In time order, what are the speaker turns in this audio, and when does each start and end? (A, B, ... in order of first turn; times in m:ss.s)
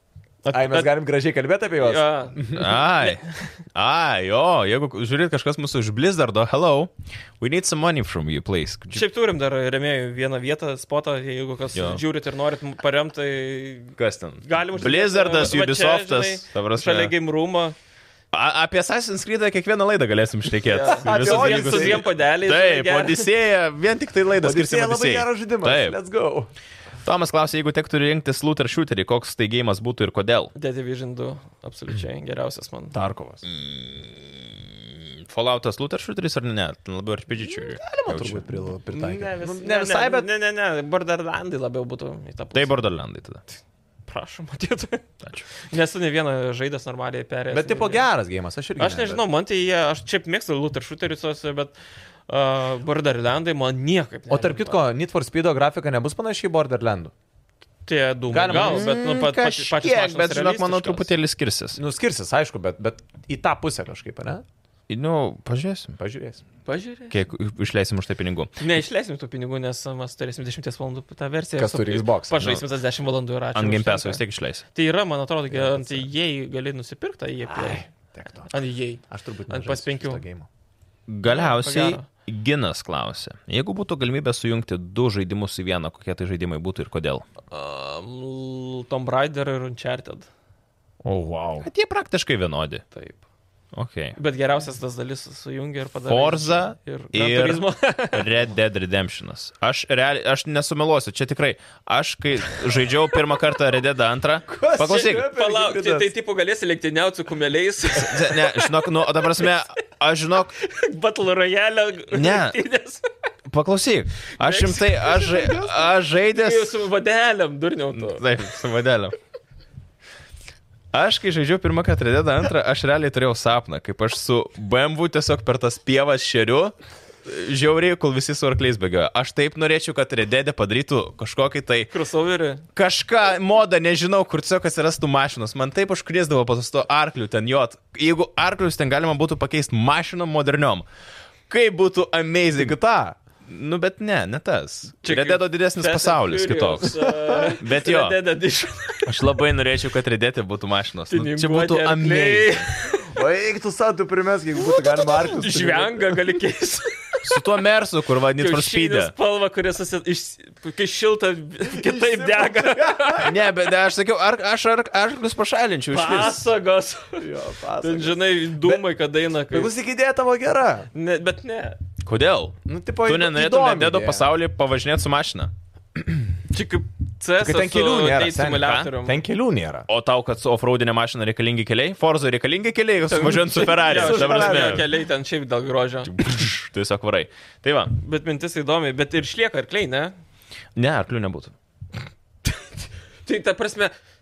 0:00.4-0:01.0 A
0:00.5-0:02.7 B
0:01.8-0:03.5 A
0:02.5-0:03.2 C
0:03.7-0:09.0 C
0:08.9-0:17.8 A
0:11.8-0:12.0 C
0:14.0-0:17.1 C
0:18.3-0:26.0 C
0:20.6-0:23.3 A
0:21.0-0:22.1 B
0:24.4-0:26.5 B
0:27.0-0:30.5 C
0:30.6-0:33.0 A
0:32.9-0:33.4 B
0:33.4-0:38.4 C
0:37.7-0:40.3 B
0:38.9-0:42.8 A
0:42.5-0:43.4 C
0:44.1-0:48.1 A
0:47.5-0:49.2 B
0:48.8-0:51.8 A
0:52.3-0:54.8 A
0:54.3-0:57.1 B
0:57.9-1:01.1 A
0:58.3-0:58.9 B
0:58.5-1:01.8 C
1:01.8-1:04.4 B
1:04.9-1:06.0 C
1:06.0-1:06.4 B
1:06.7-1:07.1 A
1:07.1-1:08.5 C
1:08.6-1:17.9 A
1:11.6-1:12.4 B
1:13.5-1:14.6 C
1:15.5-1:16.1 B
1:17.5-1:18.5 B
1:18.5-1:20.2 A
1:19.1-1:20.5 B
1:21.1-1:27.2 C
1:21.3-1:22.0 A
1:27.5-1:30.3 A
1:31.0-1:31.7 B
1:31.6-1:32.8 C
1:32.9-1:33.2 A
1:33.7-1:34.2 C
1:34.2-1:38.3 A
1:36.1-1:45.3 C
1:44.5-1:46.1 B
1:45.2-1:49.5 A
1:48.0-1:50.5 C
1:50.6-1:53.1 A
1:52.1-1:52.6 C
1:53.5-1:56.7 C
1:54.4-1:58.3 A
1:57.9-1:59.2 C
2:00.9-2:06.7 C
2:07.2-2:11.9 C
2:11.9-2:12.6 A
2:12.8-2:20.9 C
2:21.5-2:22.8 C
2:22.6-2:23.2 B
2:23.5-2:28.2 C
2:25.0-2:29.2 A
2:27.0-2:27.5 B
2:29.0-2:32.7 C
2:31.1-2:33.2 A
2:32.9-2:36.4 B
2:34.6-2:37.4 A
2:37.2-2:39.1 C
2:38.4-2:43.3 A
2:41.7-2:43.4 B
2:43.2-2:46.5 C
2:45.9-2:47.3 A
2:47.2-2:48.8 B
2:47.8-2:49.7 A
2:49.5-2:50.9 B
2:50.9-2:51.8 A
2:52.0-2:55.5 C
2:52.7-2:54.3 B
2:56.5-2:59.2 A
2:57.4-2:59.9 B
2:59.9-3:04.9 C
3:03.1-3:06.1 A
3:03.8-3:04.8 B
3:06.0-3:07.9 C
3:07.9-3:10.1 A
3:10.8-3:11.5 C
3:12.5-3:13.9 A